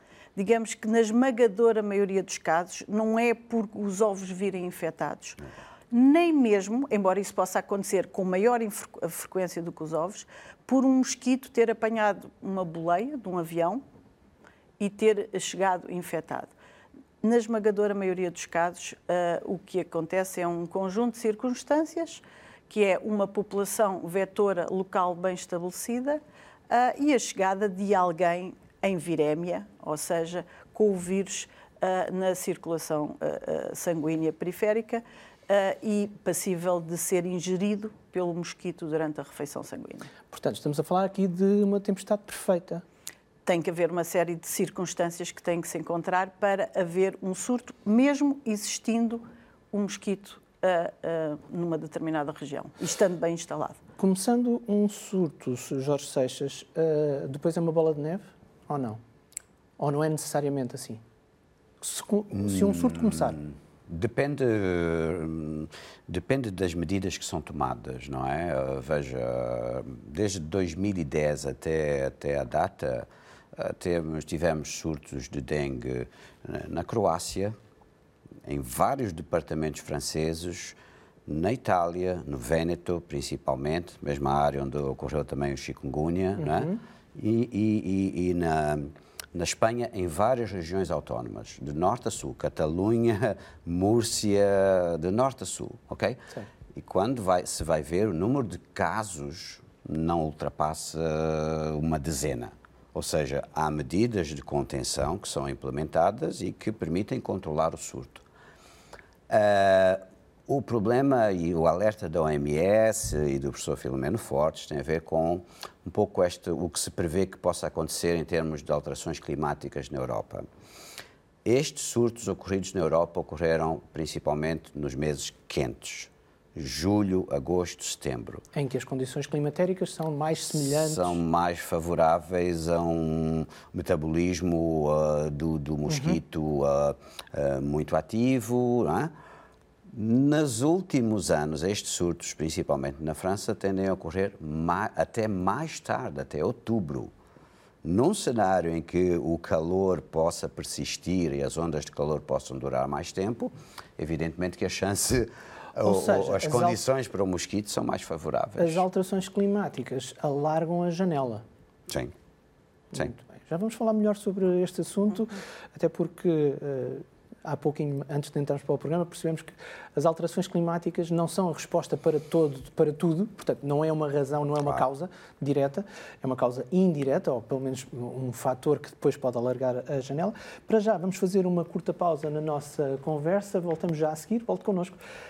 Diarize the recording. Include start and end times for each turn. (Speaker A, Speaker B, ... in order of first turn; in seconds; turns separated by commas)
Speaker A: 0.3-13.8, Speaker A: 14.8-16.5, Speaker A: 17.2-40.1, Speaker B: 40.3-42.8, Speaker A: 43.5-53.8, Speaker B: 54.0-59.0, Speaker B: 59.8-61.0, Speaker B: 61.8-63.4, Speaker C: 62.3-77.5, Speaker C: 78.4-96.2, Speaker B: 86.4-86.8, Speaker C: 96.7-108.2, Speaker C: 109.3-120.5, Speaker C: 121.4-128.4, Speaker B: 128.5-131.2, Speaker C: 130.6-139.1, Speaker B: 135.9-136.2, Speaker C: 139.9-147.1, Speaker C: 147.8-158.8, Speaker B: 155.8-156.8, Speaker B: 158.6-161.4, Speaker C: 161.9-162.1, Speaker B: 162.9-185.0